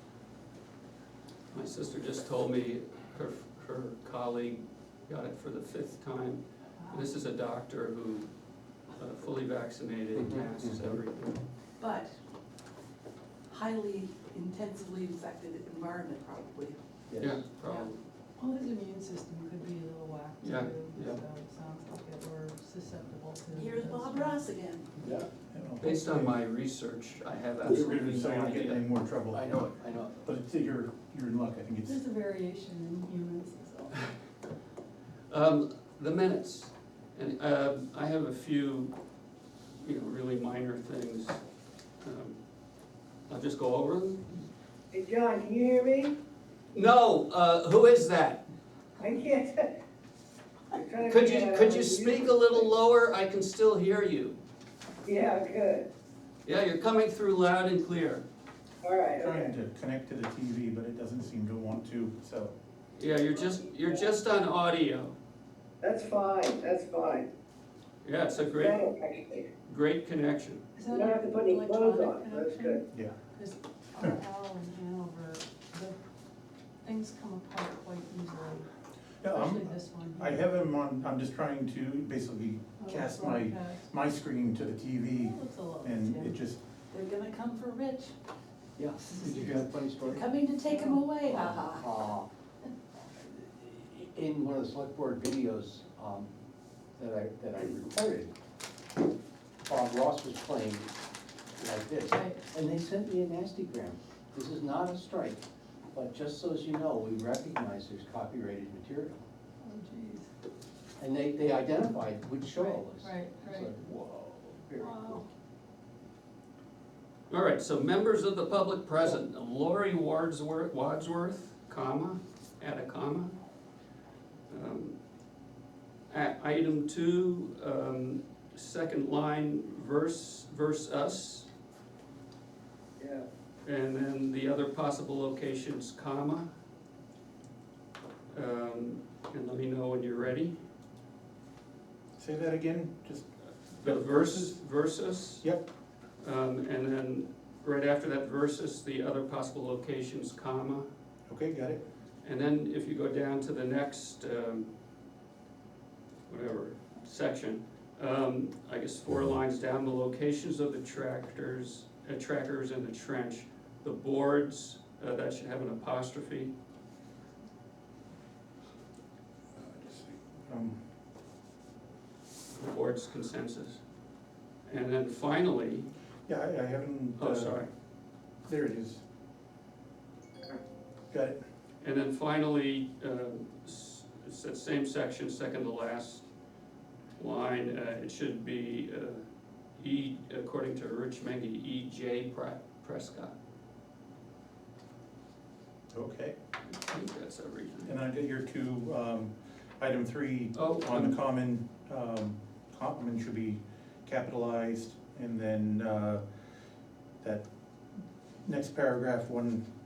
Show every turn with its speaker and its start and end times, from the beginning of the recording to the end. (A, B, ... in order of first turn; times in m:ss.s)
0:01.5-0:08.3 A
0:08.9-0:11.4 A
0:10.2-0:10.7 B
0:11.8-0:12.1 C
0:13.5-0:16.8 C
0:17.2-0:18.0 A
0:18.4-0:24.4 D
0:20.4-0:21.2 A
0:23.5-0:24.9 C
0:25.0-0:25.3 E
0:25.5-0:26.4 F
0:25.8-0:28.8 A
0:27.6-0:29.7 F
0:29.3-0:29.7 E
0:29.4-0:30.1 B
0:30.2-0:32.0 F
0:31.8-0:34.1 D
0:35.3-0:39.0 A
0:39.8-0:41.4 A
0:42.0-0:42.4 A
0:43.3-0:44.3 A
0:44.9-0:46.1 E
0:46.7-0:48.4 A
0:49.0-0:49.8 E
0:50.8-0:52.7 E
0:51.0-0:54.4 A
0:55.0-0:55.9 E
0:56.4-0:58.2 A
0:58.8-0:59.5 E
0:59.2-1:02.6 F
1:03.0-1:05.2 A
1:05.8-1:07.3 E
1:08.0-1:08.8 A
1:08.6-1:09.5 E
1:09.7-1:10.7 A
1:10.8-1:16.0 D
1:10.9-1:12.8 E
1:16.8-1:18.7 D
1:19.2-1:26.6 F
1:19.3-1:20.6 D
1:22.8-1:23.9 D
1:25.2-1:26.4 D
1:26.9-1:28.2 C
1:28.8-1:29.2 E
1:28.8-1:30.1 B
1:29.1-1:29.6 D
1:30.0-1:32.1 C
1:30.6-1:31.2 D
1:31.2-1:32.3 B
1:33.2-1:34.2 E
1:34.2-1:36.3 B
1:37.0-1:38.3 B
1:39.7-1:40.0 E
1:40.0-1:40.9 B
1:41.6-1:49.2 B
1:42.1-1:42.5 D
1:49.6-1:50.3 D
1:51.0-1:53.8 B
1:52.5-1:53.7 D
1:54.0-1:54.6 E
1:54.6-1:55.2 B
1:54.8-1:55.3 D
1:57.3-2:03.4 A
2:04.5-2:05.0 A
2:06.1-2:11.5 A
2:13.0-2:13.3 E
2:13.6-2:16.5 A
2:18.3-2:20.6 A
2:22.2-2:23.3 F
2:23.7-2:25.5 A
2:23.8-2:24.6 F
2:26.2-2:30.9 A
2:31.3-2:31.8 F
2:32.2-2:34.7 A
2:36.3-2:46.5 A
2:49.6-2:50.8 F
2:52.5-2:53.8 A
2:54.7-2:55.9 A
2:56.3-2:57.6 F
2:57.2-2:57.7 A
2:58.5-2:59.0 F
3:01.1-3:01.4 F
3:01.8-3:06.2 A
3:07.2-3:09.2 A
3:09.8-3:13.4 A
3:15.9-3:16.4 F
3:16.7-3:18.0 A
3:17.9-3:26.2 F
3:20.5-3:21.2 A
3:27.2-3:27.5 F
3:28.4-3:29.6 F